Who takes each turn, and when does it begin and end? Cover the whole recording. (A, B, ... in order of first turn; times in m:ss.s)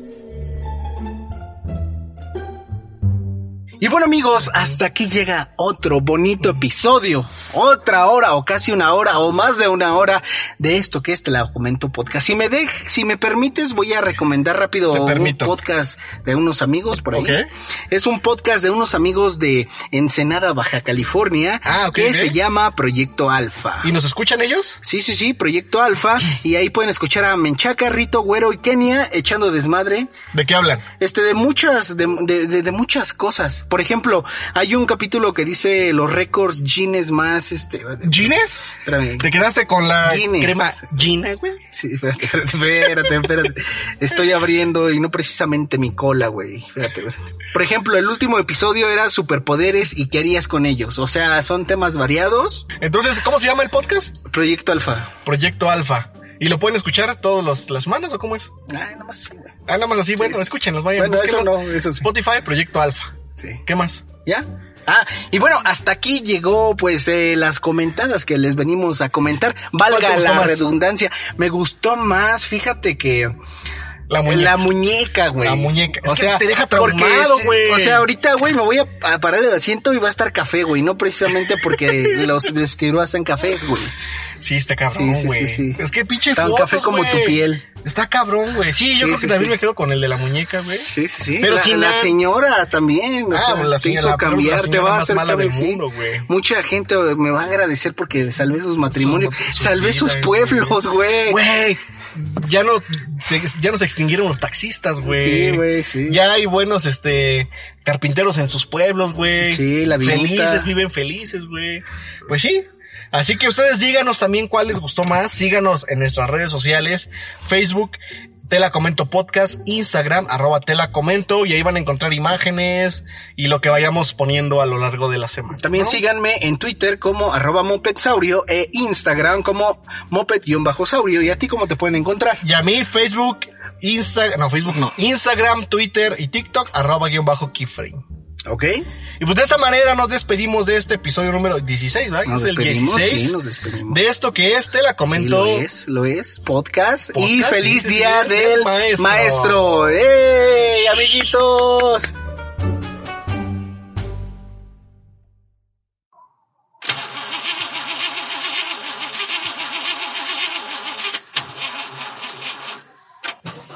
0:03.8-0:23.9 A
0:14.9-0:15.6 B
0:17.1-0:17.5 B
0:21.6-0:22.4 B
0:23.8-0:24.8 B
0:24.8-0:30.1 A
0:30.3-0:30.9 B
0:31.0-0:39.3 A
0:38.0-0:38.6 B
0:39.2-0:41.6 B
0:40.0-0:40.8 A
0:41.7-0:52.7 A
0:52.8-0:54.2 B
0:54.2-0:55.1 A
0:55.2-0:58.5 B
0:58.7-0:59.6 A
0:59.7-1:04.0 B
1:00.2-1:02.1 A
1:04.2-1:13.4 A
1:09.9-1:10.6 B
1:14.1-1:14.7 B
1:14.2-1:23.9 A
1:15.4-1:18.1 B
1:24.4-1:32.1 B
1:24.9-1:27.6 A
1:28.9-1:29.6 A
1:30.9-1:41.4 A
1:33.3-1:36.3 B
1:38.9-2:06.0 B
1:45.0-1:46.2 A
1:49.4-1:50.7 A
2:05.6-2:12.4 A
2:12.4-2:18.0 B
2:18.4-2:18.8 A
2:19.2-2:25.7 B
2:22.2-2:24.0 A
2:25.1-2:32.1 A
2:27.1-2:30.0 B